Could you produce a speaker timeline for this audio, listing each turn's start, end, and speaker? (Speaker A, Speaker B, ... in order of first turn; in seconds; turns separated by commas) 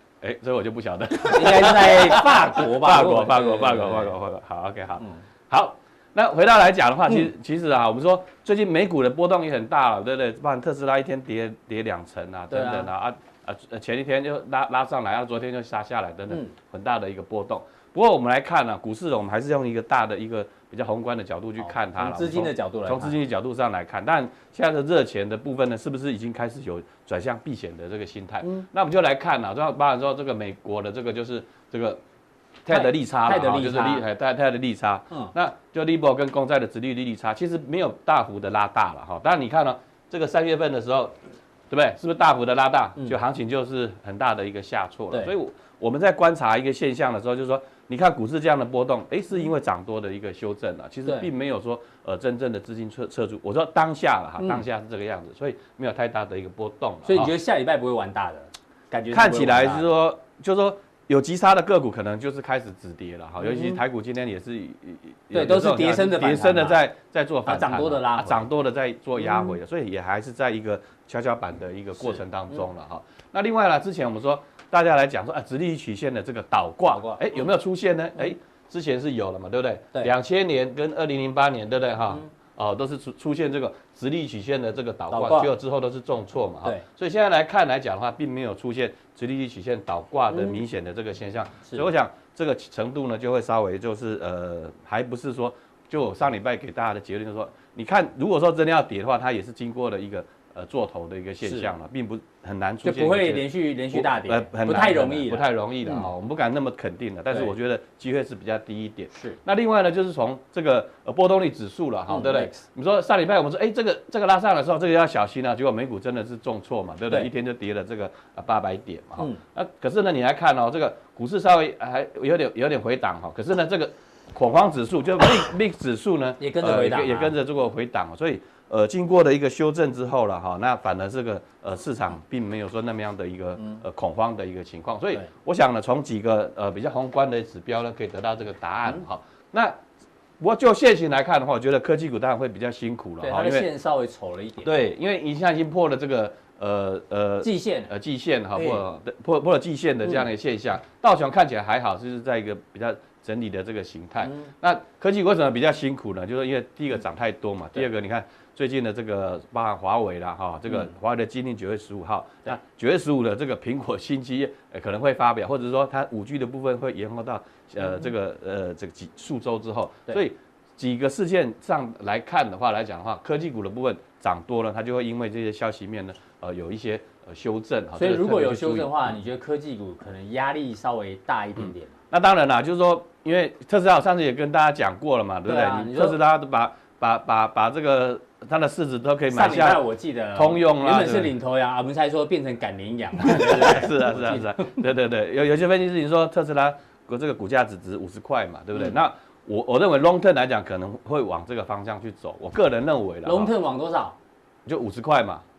Speaker A: 0.2-32.0, Speaker B: 1.2-4.1, Speaker B: 12.5-12.9, Speaker B: 21.6-23.1, Speaker A: 32.6-41.1, Speaker B: 32.7-34.0, Speaker A: 41.7-57.3, Speaker B: 57.0-59.9, Speaker A: 59.1-139.8, Speaker B: 63.4-63.8, Speaker B: 65.3-66.8, Speaker B: 67.5-68.4, Speaker B: 69.2-69.5, Speaker B: 72.0-72.6, Speaker B: 85.1-85.5, Speaker B: 90.3-90.6, Speaker B: 101.4-101.7, Speaker B: 102.8-106.1, Speaker B: 112.1-112.6, Speaker B: 126.4-127.3, Speaker A: 140.4-143.7, Speaker B: 143.2-144.7, Speaker A: 144.6-179.2, Speaker B: 147.4-147.9, Speaker B: 148.6-148.8, Speaker B: 178.0-181.9, Speaker A: 181.6-191.3, Speaker B: 185.4-186.2, Speaker B: 189.3-194.8, Speaker A: 193.2-203.5, Speaker B: 203.2-204.2, Speaker A: 204.7-205.4